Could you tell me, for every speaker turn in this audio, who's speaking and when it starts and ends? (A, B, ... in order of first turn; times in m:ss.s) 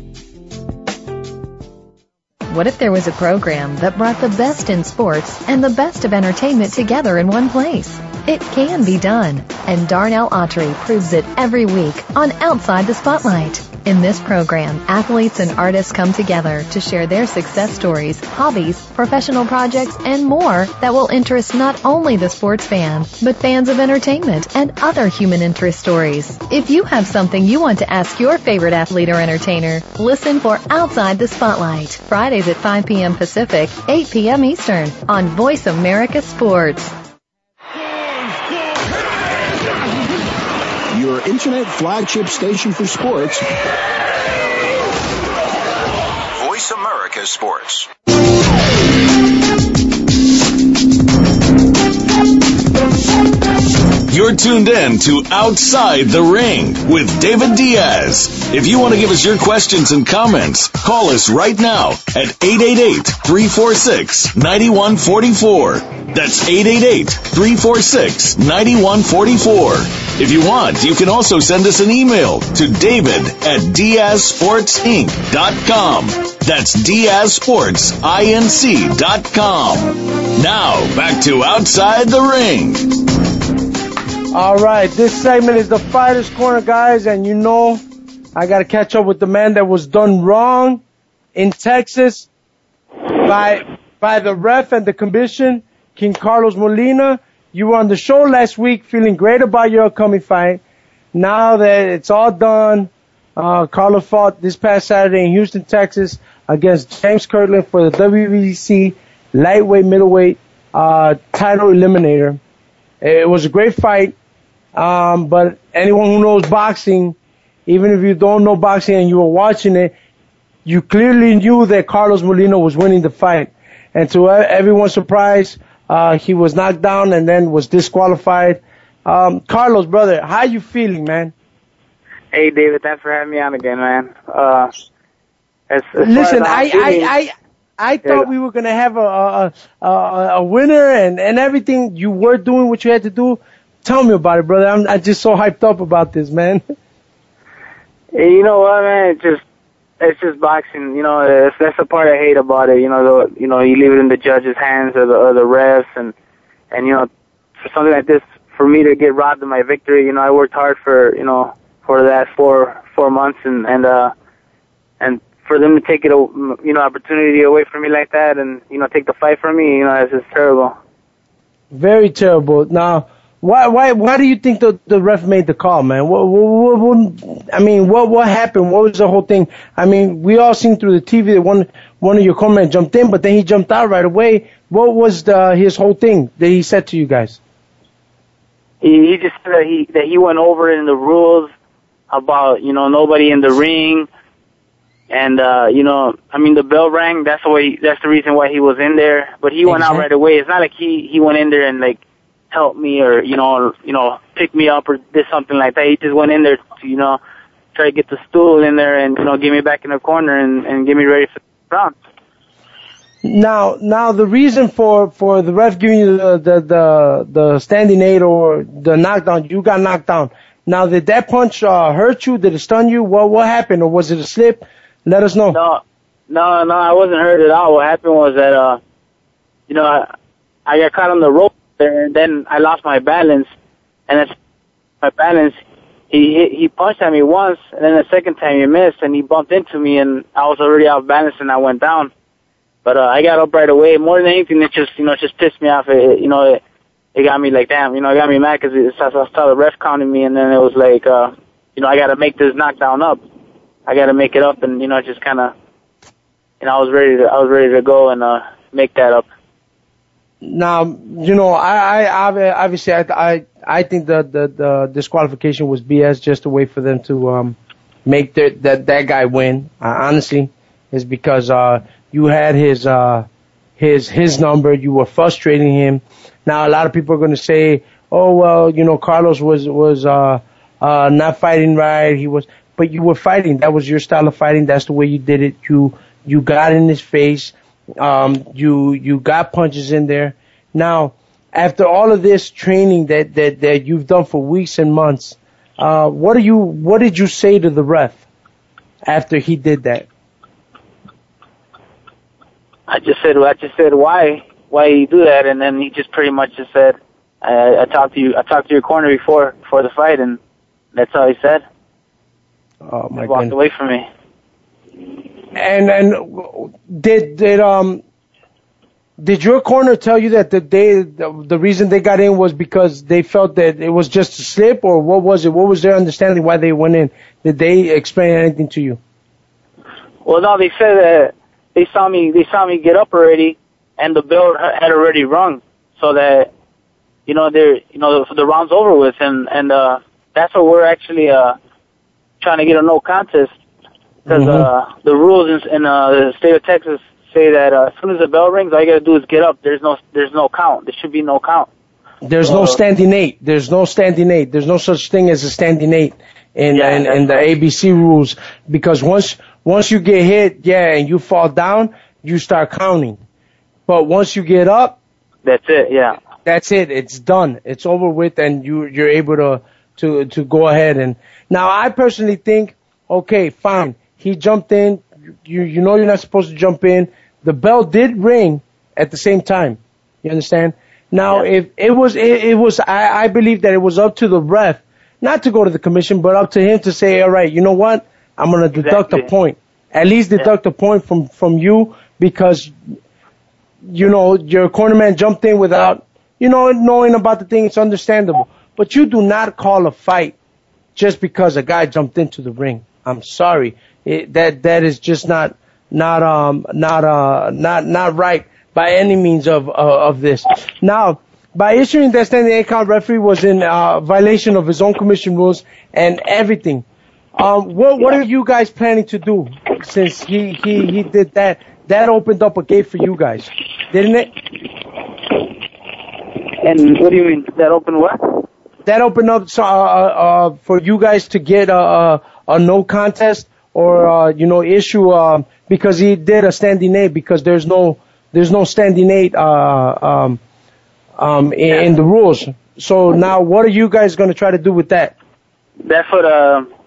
0:02.5-0:36.9 A
0:40.9-0:43.4 B
0:46.3-0:47.9 B
0:54.1-1:23.1 C
1:24.3-1:27.8 D
1:28.3-1:30.8 D
1:31.3-1:32.3 D
1:33.2-1:40.6 D
1:41.1-1:52.4 D
1:53.0-1:54.1 D
1:54.7-1:57.1 D
1:57.7-1:59.9 D
2:00.6-2:11.3 D
2:12.3-2:14.7 E
2:15.7-2:17.1 E
2:16.0-2:26.6 D
2:28.1-2:29.4 E
2:30.0-2:36.1 E
2:36.7-2:44.1 E
2:45.0-2:50.8 E
2:51.7-3:07.4 D
3:08.8-3:11.5 E
3:12.1-3:14.1 E
3:15.1-3:22.0 E
3:19.7-3:20.0 D
3:22.5-3:27.2 E
3:27.7-3:31.9 E
3:33.2-3:45.6 D
3:45.5-3:48.8 E
3:49.7-3:50.1 E
3:50.6-3:53.5 E
3:54.1-3:54.3 E
3:55.0-4:02.1 E
4:02.8-4:06.6 E
4:07.1-4:13.2 E
4:13.8-4:15.5 E
4:16.6-4:19.3 E
4:20.4-4:33.3 D
4:33.8-4:58.2 D
4:59.0-5:00.0 D
5:02.9-5:10.4 E
5:10.9-5:11.6 E
5:12.8-5:13.5 D
5:13.2-5:14.1 E
5:15.5-5:18.0 D
5:19.2-5:29.0 D
5:30.2-5:36.5 E
5:37.2-5:41.6 E
5:42.4-5:43.5 E
5:44.3-5:44.7 D
5:44.3-5:51.7 E
5:52.2-6:03.2 D
5:52.4-5:52.8 E
5:56.7-5:57.4 E
6:03.9-6:05.0 D
6:05.4-6:06.2 E
6:06.4-6:32.7 D
6:28.7-6:29.3 E
6:33.8-6:40.3 D
6:40.9-6:56.8 D
6:57.4-7:04.3 D
7:06.6-7:08.4 E
7:08.8-7:20.4 D
7:21.2-7:25.1 D
7:25.8-7:26.7 E